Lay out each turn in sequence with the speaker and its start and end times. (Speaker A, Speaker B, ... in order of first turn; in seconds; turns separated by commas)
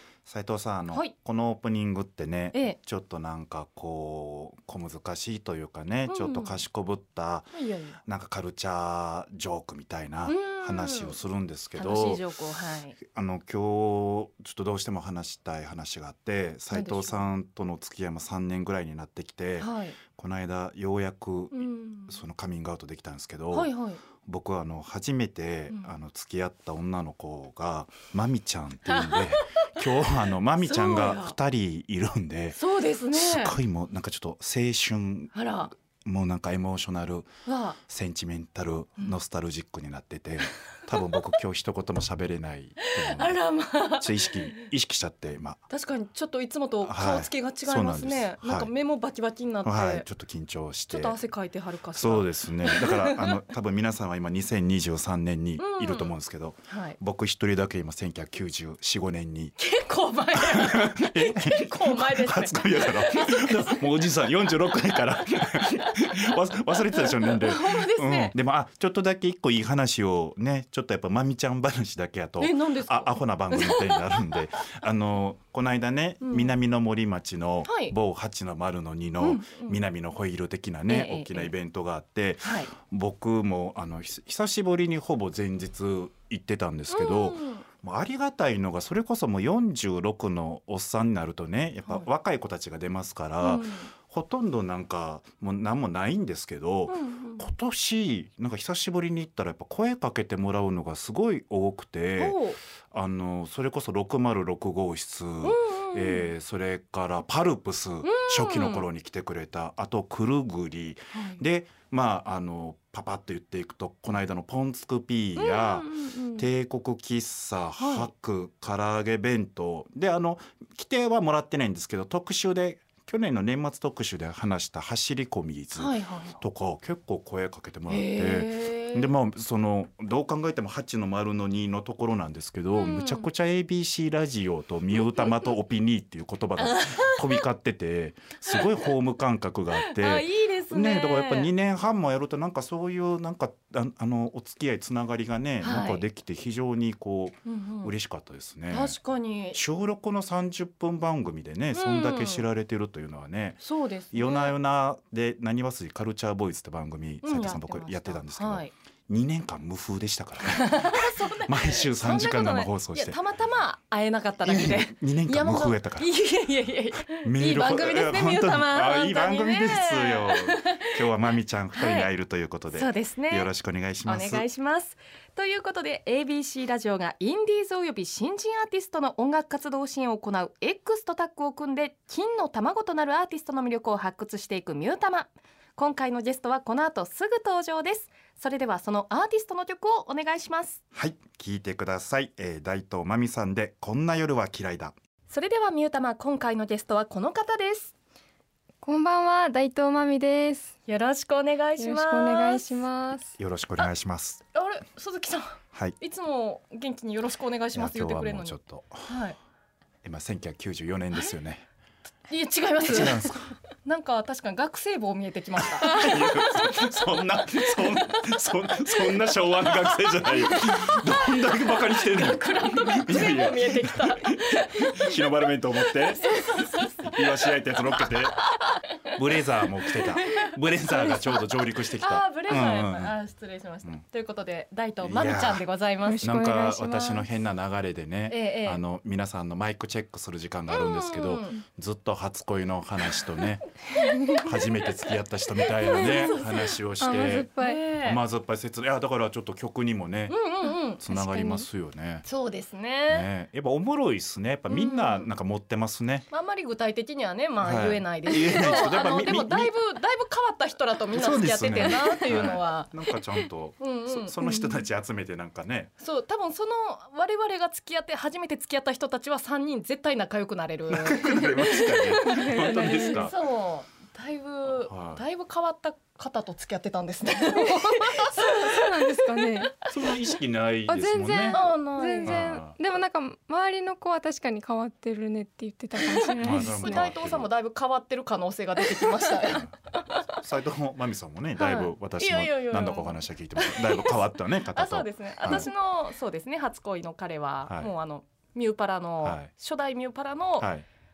Speaker A: 0.2-7.5, Speaker B: 2.5-2.8, Speaker B: 6.1-6.6, Speaker B: 7.5-8.0, Speaker A: 8.0-12.2, Speaker B: 10.2-11.2, Speaker B: 11.8-13.0, Speaker A: 13.0-23.7, Speaker B: 16.7-17.2, Speaker B: 19.6-20.0, Speaker B: 21.5-22.2, Speaker B: 23.5-24.0, Speaker A: 24.2-32.6, Speaker B: 28.9-29.9, Speaker B: 30.6-31.4, Speaker B: 32.5-33.5, Speaker A: 33.1-35.3, Speaker B: 35.3-35.7, Speaker A: 35.9-37.3, Speaker B: 37.5-37.8, Speaker A: 37.9-45.6, Speaker B: 42.9-44.7, Speaker B: 45.7-50.0, Speaker A: 46.8-48.7, Speaker A: 49.6-51.1, Speaker B: 50.9-53.4, Speaker A: 51.9-59.5, Speaker B: 55.6-56.1, Speaker B: 56.7-57.0, Speaker B: 59.6-63.9, Speaker A: 60.4-149.0, Speaker B: 66.8-68.3, Speaker B: 72.4-74.7, Speaker B: 76.2-76.5, Speaker B: 77.7-77.9, Speaker B: 79.2-79.8, Speaker B: 80.9-81.5, Speaker B: 82.4-82.7, Speaker B: 86.9-87.6, Speaker B: 93.4-93.9, Speaker B: 96.9-97.5, Speaker B: 102.2-102.6, Speaker B: 105.4-106.3, Speaker B: 108.0-108.9, Speaker B: 111.1-111.4, Speaker B: 115.3-116.5, Speaker B: 117.8-118.1, Speaker B: 125.7-126.4, Speaker B: 127.9-129.1, Speaker B: 132.7-133.3, Speaker B: 134.9-135.5, Speaker B: 136.6-137.4, Speaker B: 138.5-138.9, Speaker B: 139.7-141.5, Speaker B: 145.6-146.0, Speaker B: 147.4-147.9, Speaker B: 148.7-149.6, Speaker A: 149.5-163.2, Speaker B: 151.7-152.5, Speaker B: 153.6-154.5, Speaker B: 157.2-158.7, Speaker B: 160.4-170.9, Speaker A: 164.4-166.1, Speaker A: 167.1-174.4, Speaker B: 171.7-172.1, Speaker B: 172.7-173.5, Speaker B: 174.0-190.8, Speaker A: 190.9-194.9, Speaker B: 195.3-197.9, Speaker C: 198.8-200.8, Speaker B: 200.9-202.8, Speaker C: 201.8-203.4, Speaker A: 203.4-204.4, Speaker B: 204.5-209.4, Speaker A: 207.7-209.1, Speaker A: 210.0-211.7, Speaker B: 212.3-213.3, Speaker A: 212.8-213.5, Speaker B: 213.8-225.2, Speaker A: 215.6-226.4, Speaker B: 225.8-229.2, Speaker A: 227.0-228.4, Speaker A: 229.1-233.1, Speaker B: 229.9-236.2, Speaker A: 235.0-235.7, Speaker C: 236.0-237.3, Speaker A: 236.2-243.7, Speaker B: 238.3-238.8, Speaker B: 240.7-241.6, Speaker B: 244.0-244.4, Speaker A: 244.3-247.5, Speaker B: 245.8-246.7, Speaker C: 245.8-247.8, Speaker B: 247.5-248.2, Speaker A: 248.0-250.3, Speaker B: 250.3-251.0, Speaker A: 251.0-252.2, Speaker C: 251.1-251.7, Speaker B: 252.2-253.3, Speaker A: 253.1-256.3, Speaker B: 254.7-255.3, Speaker B: 256.3-263.0, Speaker A: 257.6-259.7, Speaker A: 261.1-265.9, Speaker C: 261.8-262.5, Speaker B: 263.8-264.8, Speaker B: 266.0-279.9, Speaker A: 270.9-273.3, Speaker C: 272.2-273.3, Speaker A: 274.7-275.2, Speaker C: 277.5-279.8, Speaker A: 279.8-281.7, Speaker C: 280.9-287.1, Speaker B: 281.5-282.4, Speaker A: 282.2-282.8, Speaker B: 286.0-290.3, Speaker A: 286.4-287.5, Speaker A: 290.3-295.7, Speaker B: 291.6-300.7, Speaker A: 297.6-297.9, Speaker A: 299.2-299.5, Speaker A: 300.6-300.9